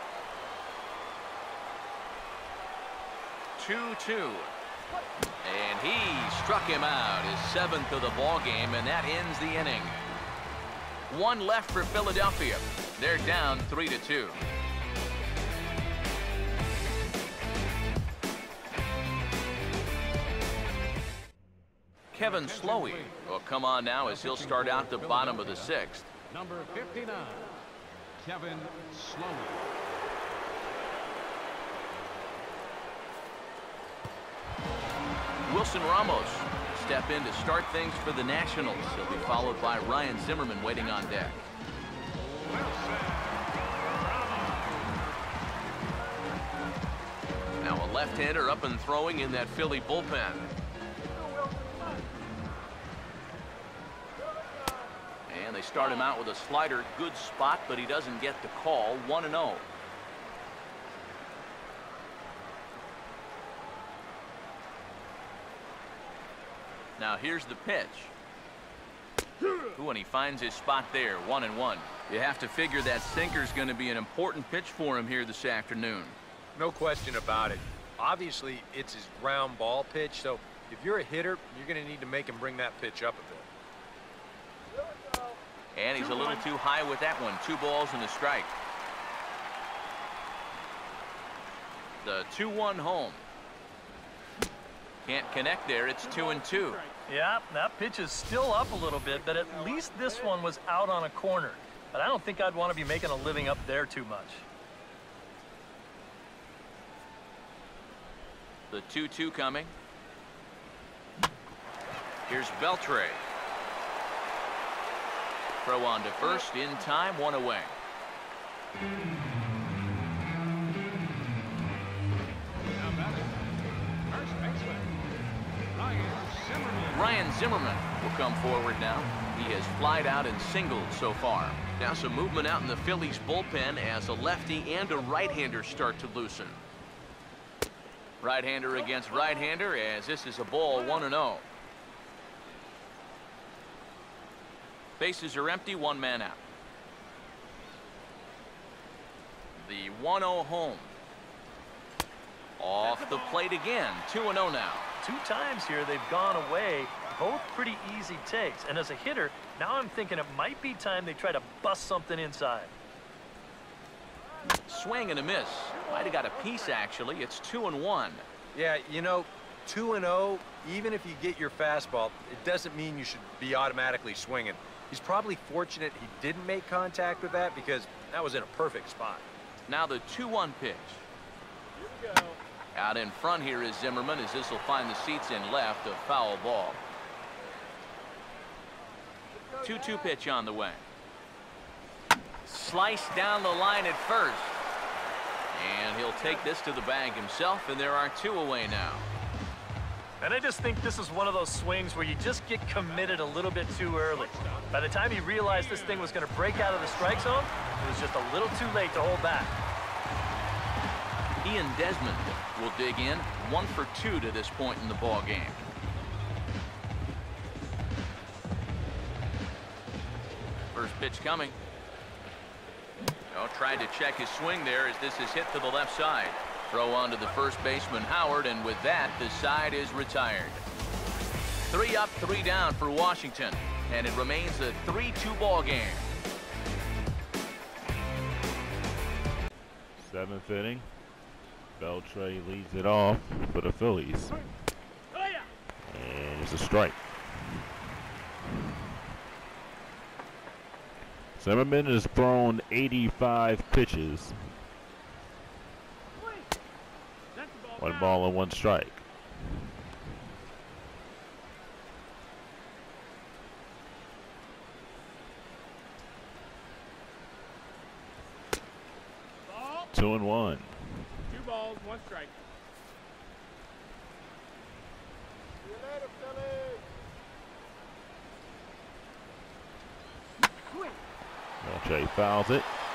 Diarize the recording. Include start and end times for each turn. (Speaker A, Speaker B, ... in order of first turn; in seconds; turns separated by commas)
Speaker A: 3.6-4.5, Speaker A: 5.4-10.0, Speaker A: 11.1-14.4, Speaker A: 22.1-26.1, Speaker B: 22.2-23.2, Speaker B: 24.0-27.6, Speaker B: 28.2-29.7, Speaker A: 35.5-41.4, Speaker C: 41.0-41.3, Speaker B: 42.5-43.5, Speaker C: 44.2-44.5, Speaker B: 44.3-44.7, Speaker A: 47.6-50.5, Speaker C: 51.1-52.0, Speaker A: 55.3-59.7, Speaker A: 67.0-68.1, Speaker A: 69.8-76.2, Speaker D: 76.5-83.5, Speaker A: 85.8-88.5, Speaker C: 86.0-86.5, Speaker A: 92.0-93.2, Speaker A: 95.0-96.8, Speaker C: 96.0-97.0, Speaker E: 97.1-104.4, Speaker A: 108.7-109.7, Speaker A: 112.3-113.2, Speaker A: 115.6-117.8, Speaker C: 116.2-116.5, Speaker B: 122.8-123.5, Speaker B: 124.1-125.0, Speaker B: 125.7-127.2, Speaker A: 126.9-136.6, Speaker A: 138.2-141.4, Speaker C: 138.8-139.5, Speaker A: 145.0-146.4, Speaker A: 149.6-150.9, Speaker A: 152.6-154.9, Speaker C: 152.8-153.4, Speaker E: 155.0-162.7, Speaker A: 164.6-168.2, Speaker C: 165.7-166.6, Speaker D: 168.5-179.2, Speaker A: 179.7-181.0, Speaker C: 181.8-182.4, Speaker A: 182.7-186.8, Speaker C: 189.4-190.1, Speaker A: 189.6-190.8, Speaker A: 192.4-194.6, Speaker A: 195.5-199.0, Speaker E: 200.2-209.6, Speaker B: 204.1-207.5, Speaker A: 211.4-215.6, Speaker A: 220.7-221.6, Speaker A: 223.3-230.6, Speaker A: 231.7-236.1, Speaker F: 240.0-240.9, Speaker F: 241.8-244.4, Speaker C: 245.1-245.5, Speaker F: 245.9-247.1, Speaker F: 251.4-254.4, Speaker C: 256.2-256.5, Speaker C: 257.4-258.2, Speaker F: 257.8-259.1, Speaker C: 269.5-269.9, Speaker F: 269.9-270.8, Speaker C: 271.3-272.4, Speaker C: 280.7-281.0, Speaker F: 281.6-282.7